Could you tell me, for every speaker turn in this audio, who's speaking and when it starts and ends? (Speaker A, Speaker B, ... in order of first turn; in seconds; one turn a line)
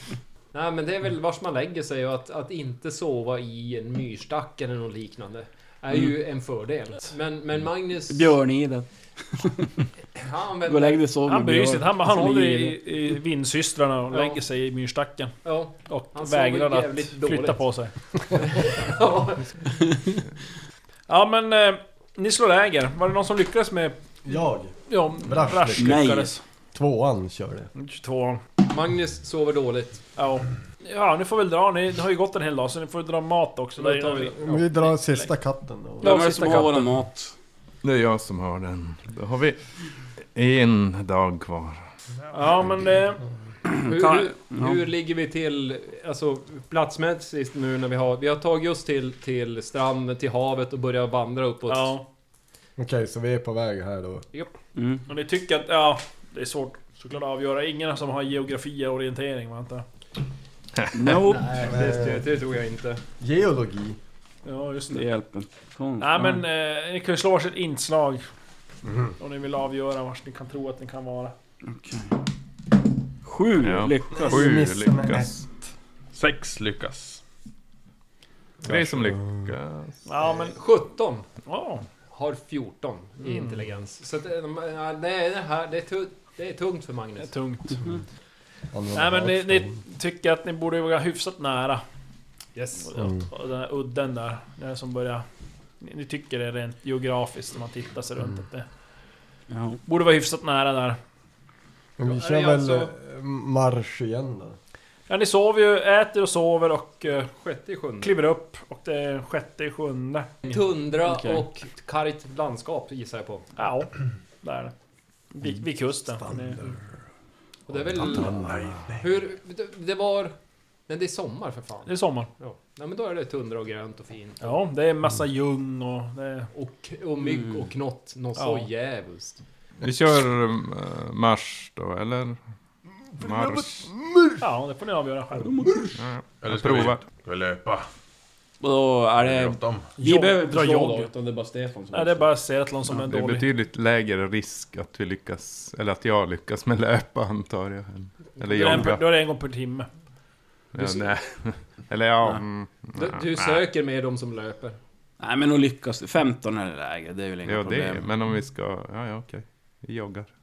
Speaker A: 0.5-8.3
Speaker B: 8.1-9.8
Speaker A: 10.2-11.0
Speaker B: 10.6-12.8
Speaker C: 11.2-17.9
Speaker A: 14.1-14.4
Speaker A: 15.4-17.6
Speaker A: 18.3-19.6
Speaker C: 21.1-24.0
Speaker D: 24.2-26.1
Speaker C: 24.9-26.4
Speaker B: 25.8-26.3
Speaker D: 26.7-27.7
Speaker C: 27.7-28.4
Speaker A: 28.6-30.0
Speaker C: 30.2-35.3
Speaker A: 33.8-34.7
Speaker D: 34.4-36.3
Speaker B: 36.0-37.3
Speaker C: 36.0-36.9
Speaker E: 37.8-39.6
Speaker E: 40.2-41.9
Speaker C: 42.3-43.2
Speaker B: 43.7-44.8
Speaker A: 43.8-52.0
Speaker C: 51.7-52.0
Speaker D: 52.8-54.2
Speaker B: 54.7-55.0
Speaker C: 55.1-59.8
Speaker B: 60.9-61.6
Speaker A: 61.1-63.0
Speaker D: 61.5-62.3
Speaker D: 63.2-64.0
Speaker C: 64.4-65.1
Speaker B: 64.9-66.4
Speaker C: 66.0-68.2
Speaker C: 69.2-71.3
Speaker B: 71.6-72.2
Speaker B: 73.2-74.5
Speaker E: 73.6-75.3
Speaker D: 74.1-75.7
Speaker F: 76.1-77.2
Speaker D: 78.6-79.5
Speaker E: 78.6-80.0
Speaker C: 80.0-80.5
Speaker A: 80.2-81.2
Speaker C: 81.5-81.8
Speaker A: 82.1-87.3
Speaker C: 83.2-83.6
Speaker C: 87.2-87.8
Speaker D: 88.7-89.8
Speaker C: 88.9-91.8
Speaker A: 92.5-92.9
Speaker C: 92.8-95.2
Speaker D: 93.0-93.3
Speaker C: 95.8-98.7
Speaker B: 99.5-99.8
Speaker C: 99.8-101.0
Speaker D: 102.0-104.6
Speaker A: 102.0-102.9
Speaker C: 105.1-107.3
Speaker A: 107.3-108.1
Speaker C: 108.0-110.3
Speaker A: 110.4-113.5
Speaker B: 111.0-111.5
Speaker C: 113.5-114.7
Speaker C: 115.3-116.6
Speaker D: 116.2-116.7
Speaker A: 117.7-118.5
Speaker D: 117.7-119.0
Speaker F: 118.3-118.8
Speaker A: 119.0-120.3
Speaker A: 120.9-124.6
Speaker C: 121.8-122.3
Speaker C: 124.4-126.5
Speaker A: 126.5-129.4
Speaker B: 127.3-127.6
Speaker C: 128.3-128.7
Speaker E: 129.8-132.4
Speaker E: 133.2-133.9
Speaker D: 133.2-134.4
Speaker C: 134.4-135.6
Speaker B: 135.4-136.0
Speaker E: 135.9-137.0
Speaker F: 136.4-137.8
Speaker B: 138.6-142.3
Speaker F: 139.2-139.9
Speaker C: 140.0-141.1
Speaker C: 141.9-143.5
Speaker E: 142.9-149.1
Speaker C: 148.5-149.9
Speaker E: 150.7-153.7
Speaker A: 152.9-154.8
Speaker B: 155.2-158.1
Speaker E: 157.4-160.3